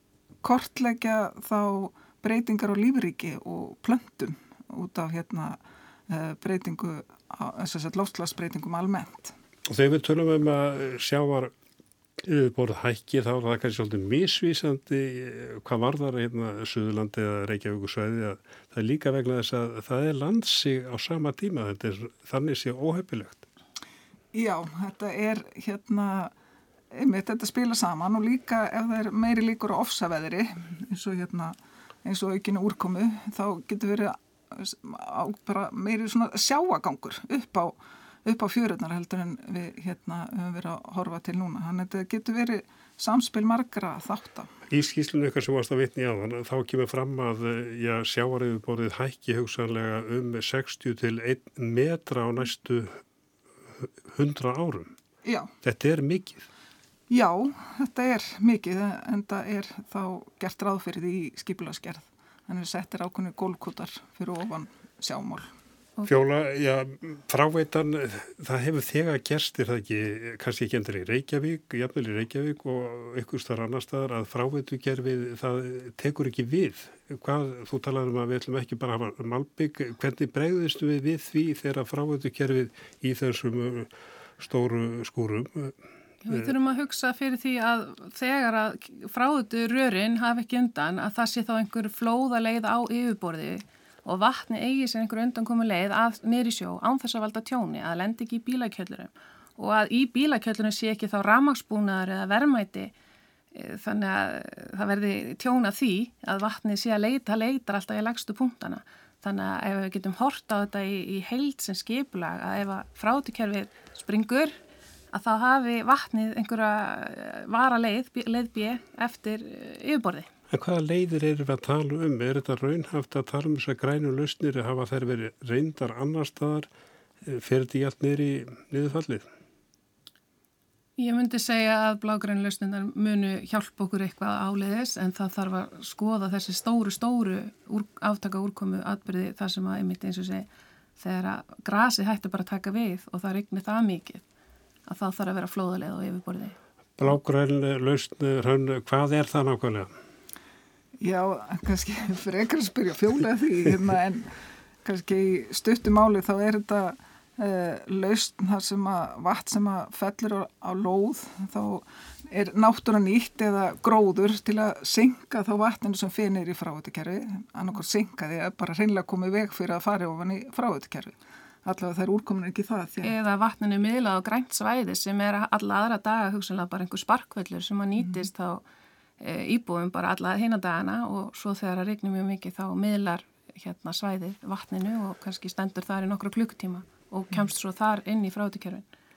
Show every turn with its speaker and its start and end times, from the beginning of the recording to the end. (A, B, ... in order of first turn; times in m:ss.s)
0:00.4-0:09.3 A
0:09.7-0:11.5 B
0:12.2-0:23.4 B
0:24.3-0:26.3 A
0:26.9-0:44.5 A
0:44.7-0:53.0 B
0:53.8-0:54.9 B
0:55.2-0:55.5 A
0:55.6-0:56.4 B
0:57.1-1:05.5 A
1:06.0-1:23.9 B
1:24.4-1:25.8 B
1:26.2-1:42.9 C
1:43.5-1:54.5 C
1:55.1-2:00.3 C
2:00.5-2:06.7 B
2:07.2-2:09.2 B
2:11.0-2:24.2 C
2:24.9-2:26.6 C
2:27.0-2:29.9 B
2:31.0-2:53.1 A
2:53.0-2:58.6 C
2:58.0-2:58.2 A
2:59.2-3:08.8 C